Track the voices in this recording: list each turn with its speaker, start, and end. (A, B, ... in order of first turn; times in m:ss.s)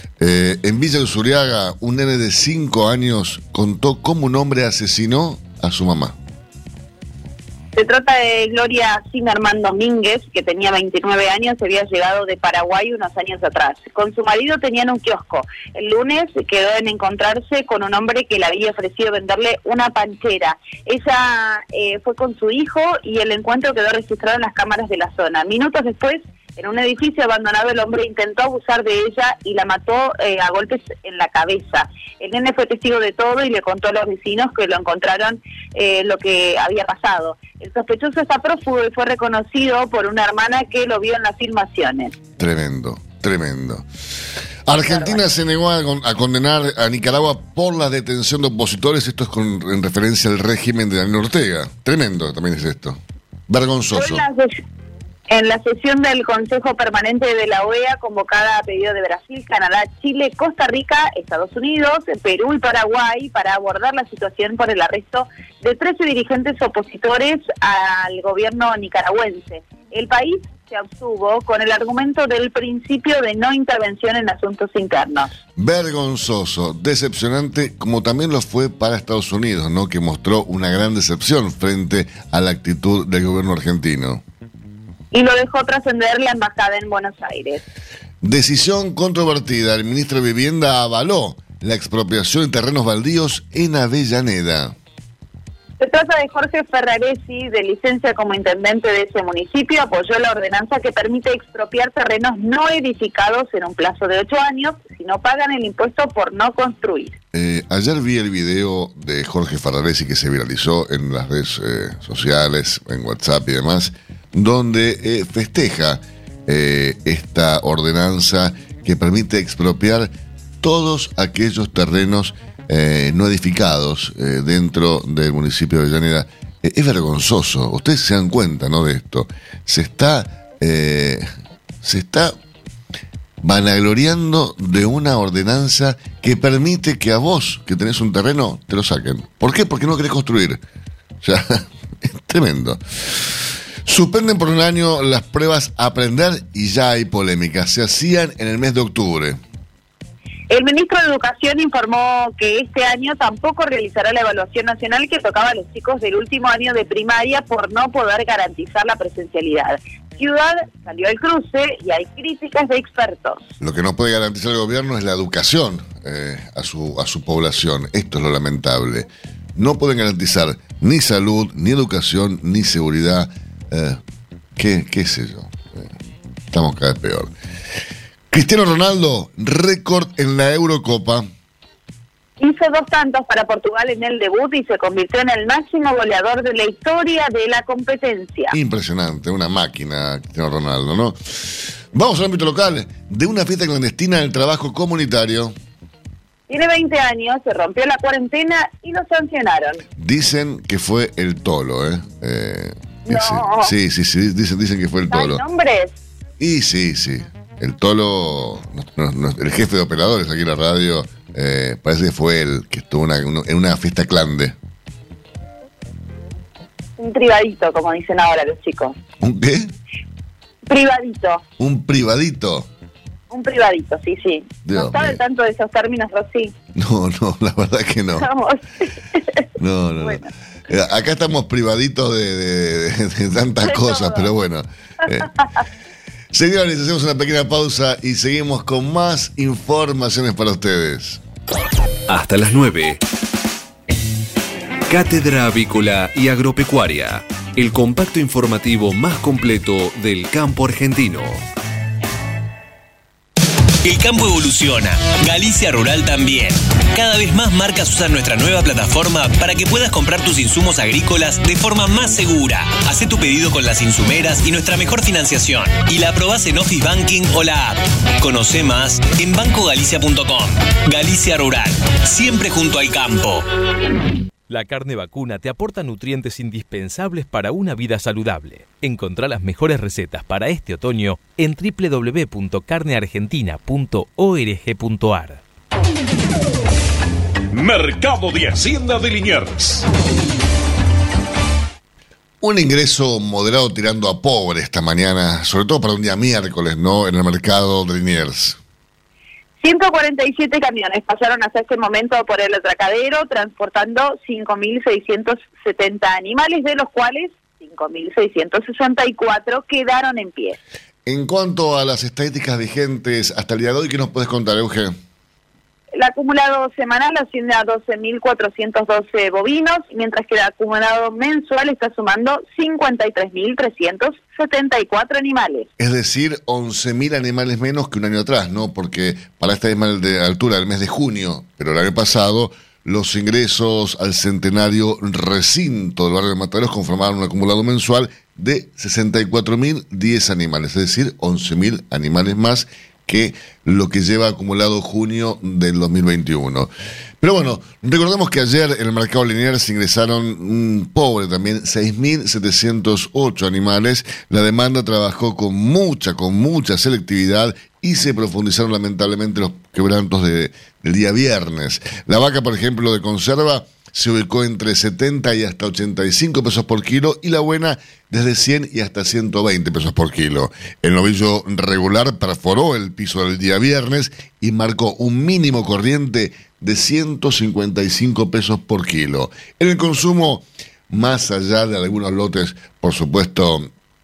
0:00.2-0:06.2 A
0:07.8-0:42.2 B
0:42.4-0:43.9 A
0:44.7-0:54.2 A
0:44.9-0:45.2 B
0:53.9-0:54.6 B
0:55.3-1:15.3 B
1:15.6-1:24.2 A
1:25.1-1:27.6 B
1:28.2-1:34.8 A
1:35.8-1:47.2 B
1:47.3-2:00.1 A
2:00.6-2:11.3 A
2:11.8-2:12.3 A
2:13.4-2:20.6 A
2:21.2-2:29.4 A
2:30.5-2:43.4 B
2:43.6-2:54.0 A
2:54.6-2:55.9 A
2:56.5-2:57.3 A
2:58.3-3:01.3 A
3:02.4-3:08.6 B
3:08.5-3:15.5 A
3:16.5-3:19.8 B
3:20.0-3:25.4 A
3:23.1-3:23.7 B
3:25.1-3:25.9 B
3:26.4-3:34.6 A
3:37.0-3:39.0 B
3:39.2-3:39.7 A
3:40.7-3:41.4 B
3:41.6-3:42.7 A
3:43.3-3:46.5 B
3:44.7-3:45.2 A
3:46.8-3:48.3 A
3:48.2-3:49.4 B
3:49.6-3:55.3 A
3:50.0-3:50.3 B
3:53.7-3:54.3 B
3:56.3-4:01.2 A
4:02.1-4:03.0 C
4:04.9-4:11.4 C
4:13.8-4:33.5 D
4:34.5-4:45.4 E
4:47.5-4:49.9 F
4:52.4-4:58.6 A
4:59.6-5:10.6 B
5:11.1-5:14.9 A
5:16.0-5:25.7 B
5:25.8-5:46.7 A
5:47.2-6:23.7 A